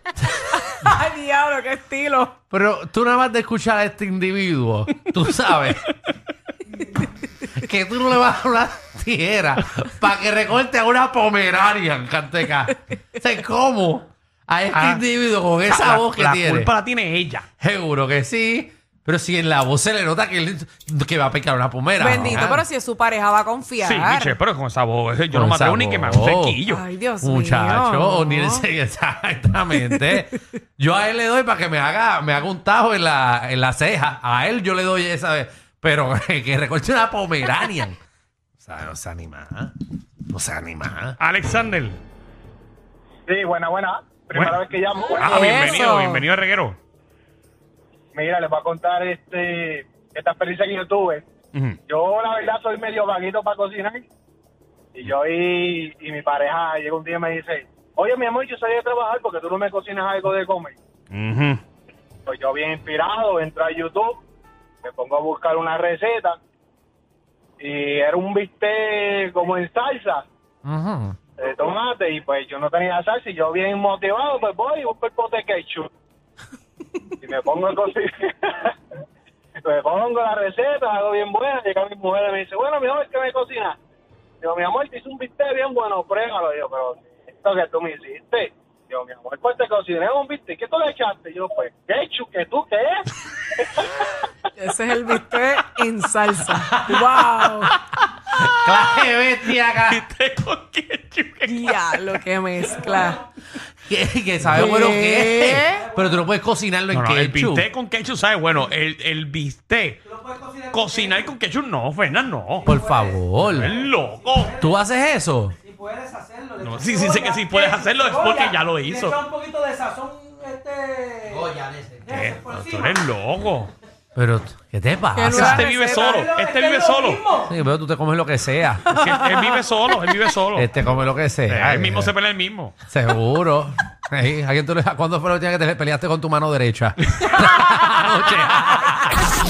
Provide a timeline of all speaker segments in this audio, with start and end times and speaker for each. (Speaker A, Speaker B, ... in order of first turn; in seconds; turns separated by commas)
Speaker A: 0.3-2.3, Speaker B: 2.5-5.9, Speaker B: 7.5-16.7, Speaker C: 14.7-15.0, Speaker C: 15.7-17.4, Speaker B: 17.6-22.6, Speaker A: 22.0-24.4, Speaker C: 23.8-26.8, Speaker B: 25.3-26.6, Speaker A: 26.7-28.6, Speaker B: 27.2-38.0, Speaker A: 29.8-30.2, Speaker B: 38.6-39.7, Speaker B: 40.3-41.2, Speaker C: 41.2-42.0, Speaker D: 43.3-45.7, Speaker C: 44.3-44.6, Speaker C: 45.1-46.8, Speaker A: 45.2-46.2, Speaker D: 48.1-51.2, Speaker D: 51.9-54.0, Speaker D: 54.9-60.7, Speaker C: 61.1-61.6, Speaker D: 62.3-64.2, Speaker D: 64.8-66.4, Speaker D: 67.6-70.2, Speaker B: 70.6-71.2, Speaker D: 71.4-75.9, Speaker D: 77.2-78.7, Speaker D: 79.6-83.8, Speaker D: 84.4-92.9, Speaker D: 93.6-93.9, Speaker A: 94.6-97.7, Speaker B: 96.7-96.9, Speaker C: 97.9-99.0, Speaker B: 98.5-100.0, Speaker C: 99.7-102.2, Speaker A: 101.5-103.2, Speaker B: 103.9-107.7, Speaker A: 104.5-105.9, Speaker C: 106.9-112.7, Speaker B: 112.6-113.7, Speaker C: 113.4-114.6, Speaker B: 114.5-115.5, Speaker C: 116.6-119.3, Speaker A: 119.2-121.1, Speaker C: 122.0-123.7, Speaker B: 124.1-125.7, Speaker A: 125.1-126.3, Speaker C: 125.3-127.4, Speaker B: 127.4-128.9, Speaker C: 128.9-130.7, Speaker A: 129.1-129.4, Speaker B: 130.5-132.1, Speaker C: 131.5-132.7, Speaker B: 132.9-139.2